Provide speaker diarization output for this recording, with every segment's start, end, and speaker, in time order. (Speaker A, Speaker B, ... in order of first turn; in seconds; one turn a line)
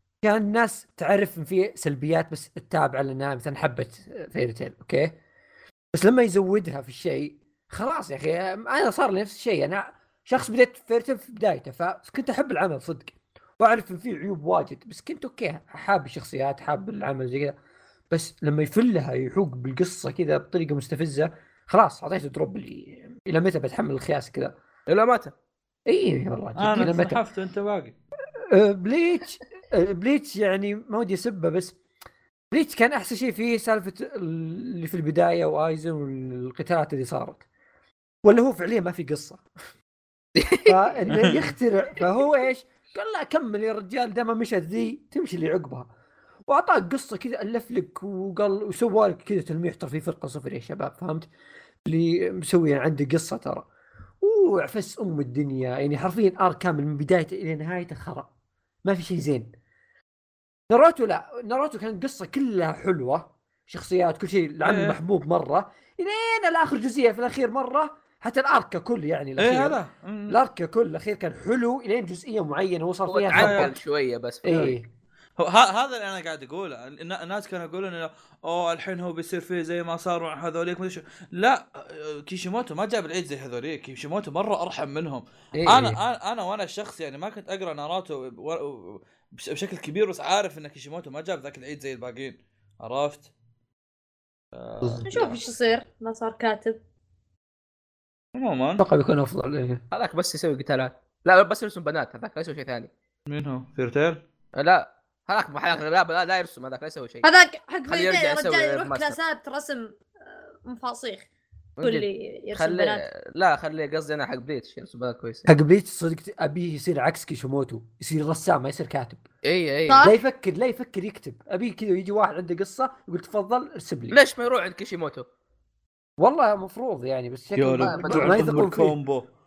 Speaker A: 0.2-5.2
Speaker A: 5.9-17.6
Speaker A: 18.1-24.5
Speaker B: 24.9-25.3
Speaker A: 25.9-27.2
Speaker C: 26.6-27.9
Speaker A: 28.5-31.8
Speaker A: 32.5-37.5
Speaker A: 38.2-39.4
Speaker B: 40.4-41.0
Speaker A: 40.6-45.9
Speaker C: 41.1-41.5
Speaker A: 46.5-51.3
Speaker A: 51.9-53.7
Speaker A: 54.2-58.3
Speaker A: 58.8-59.5
Speaker A: 60.7-73.8
Speaker C: 64.6-65.0
Speaker C: 69.4-70.4
Speaker B: 73.1-74.8
Speaker C: 73.3-73.7
Speaker A: 74.5-74.9
Speaker C: 75.4-93.3
Speaker A: 85.6-86.0
Speaker C: 94.5-95.4
Speaker D: 95.0-96.8
Speaker C: 98.3-98.8
Speaker A: 98.8-99.8
Speaker B: 99.9-102.9
Speaker C: 103.3-104.2
Speaker B: 104.6-107.3
Speaker D: 107.2-111.3
Speaker B: 107.9-109.2
Speaker B: 111.8-115.5
Speaker D: 111.8-113.0
Speaker A: 115.5-119.2
Speaker B: 119.5-120.1
Speaker D: 119.9-120.1
Speaker A: 120.0-124.2
Speaker B: 124.1-125.2
Speaker A: 126.2-128.9
Speaker C: 127.5-129.3
Speaker B: 127.8-128.6